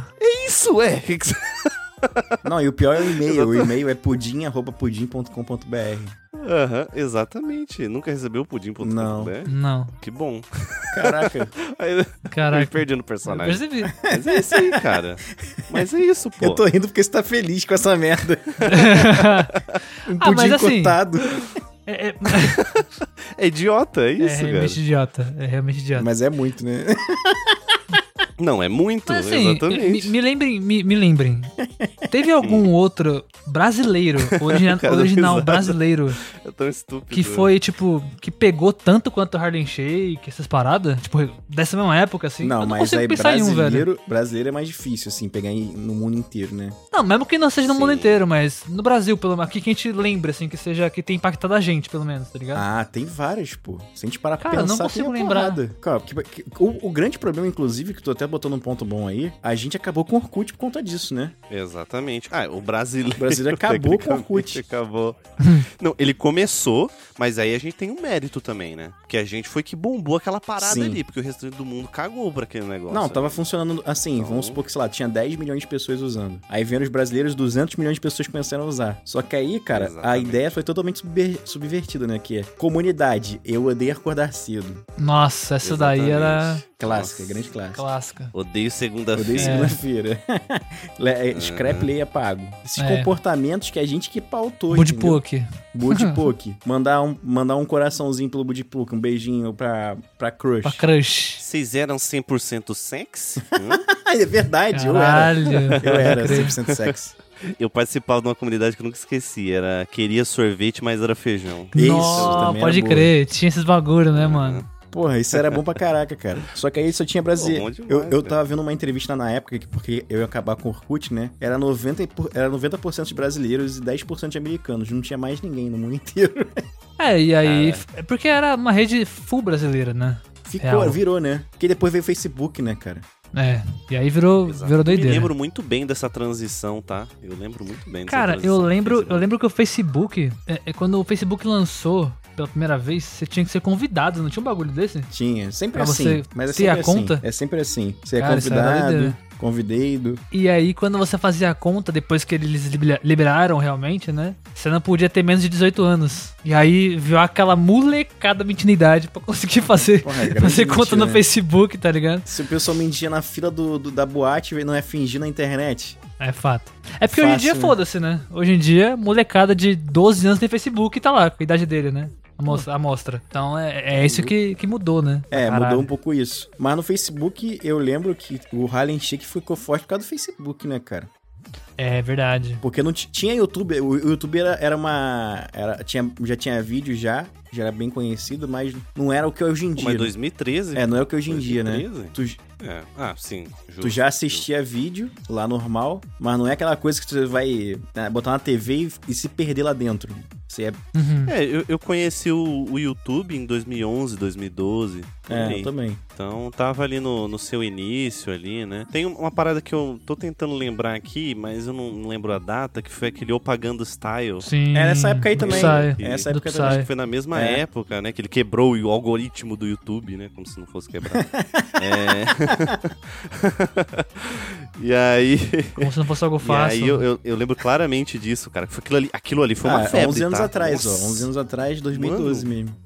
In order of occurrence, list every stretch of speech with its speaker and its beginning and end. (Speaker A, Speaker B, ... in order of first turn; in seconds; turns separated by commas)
Speaker A: 0.2-2.4, Speaker B: 2.4-6.1, Speaker A: 3.0-3.8, Speaker A: 6.3-16.6, Speaker B: 8.8-9.3, Speaker C: 9.5-9.9, Speaker B: 10.9-11.5, Speaker C: 12.3-13.9, Speaker B: 13.9-15.9, Speaker B: 16.4-19.1, Speaker C: 18.7-19.5, Speaker A: 19.5-19.8, Speaker B: 20.1-21.5, Speaker C: 20.2-21.0, Speaker C: 21.9-22.6, Speaker A: 22.3-24.8, Speaker C: 24.2-26.1, Speaker B: 25.9-27.8, Speaker A: 28.4-30.1, Speaker C: 29.1-31.5, Speaker B: 31.6-32.1, Speaker C: 32.1-36.2, Speaker A: 32.4-32.7, Speaker A: 34.2-37.5, Speaker C: 37.1-43.9, Speaker B: 42.4-46.8, Speaker C: 46.9-52.6, Speaker A: 47.7-48.2, Speaker B: 52.5-61.3, Speaker C: 54.4-55.6, Speaker A: 61.5-73.4, Speaker B: 63.2-64.6, Speaker C: 65.4-65.7, Speaker B: 70.6-71.0, Speaker B: 72.9-84.8, Speaker A: 74.2-74.6, Speaker A: 79.7-80.5, Speaker C: 85.0-86.6, Speaker A: 85.6-87.5, Speaker B: 86.8-87.8, Speaker C: 87.7-88.3, Speaker A: 88.3-89.8, Speaker B: 89.1-95.2, Speaker C: 89.4-89.8, Speaker A: 91.3-91.9, Speaker C: 92.8-93.1, Speaker C: 94.7-96.2, Speaker B: 95.7-100.8, Speaker C: 100.6-101.4, Speaker A: 101.4-103.8, Speaker B: 103.5-107.1, Speaker C: 104.7-106.5, Speaker A: 105.5-112.6, Speaker C: 111.7-114.6, Speaker B: 111.7-113.1, Speaker A: 114.1-114.7, Speaker B: 114.9-126.6, Speaker A: 115.3-115.6, Speaker A: 117.3-118.4, Speaker C: 127.0-131.0, Speaker A: 127.4-127.8, Speaker B: 130.4-133.1, Speaker C: 133.3-135.3, Speaker A: 134.4-139.3, Speaker C: 138.1-145.1, Speaker B: 145.1-150.2, Speaker C: 145.7-147.2, Speaker C: 148.2-149.2, Speaker C: 150.3-162.3, Speaker B: 159.9-161.2, Speaker B: 162.3-166.0, Speaker C: 166.2-175.9, Speaker B: 167.1-167.8, Speaker B: 173.9-174.3, Speaker B: 175.3-181.1, Speaker C: 181.8-182.6, Speaker B: 182.6-190.1, Speaker A: 189.8-194.4, Speaker B: 190.7-192.4, Speaker B: 193.8-200.8, Speaker C: 200.9-201.3, Speaker A: 201.3-214.5, Speaker B: 205.3-206.0, Speaker C: 214.4-216.9, Speaker B: 214.7-217.6, Speaker A: 215.4-225.9, Speaker B: 221.1-222.7, Speaker C: 225.8-227.0, Speaker A: 226.4-231.3, Speaker B: 229.6-232.8, Speaker A: 231.9-232.5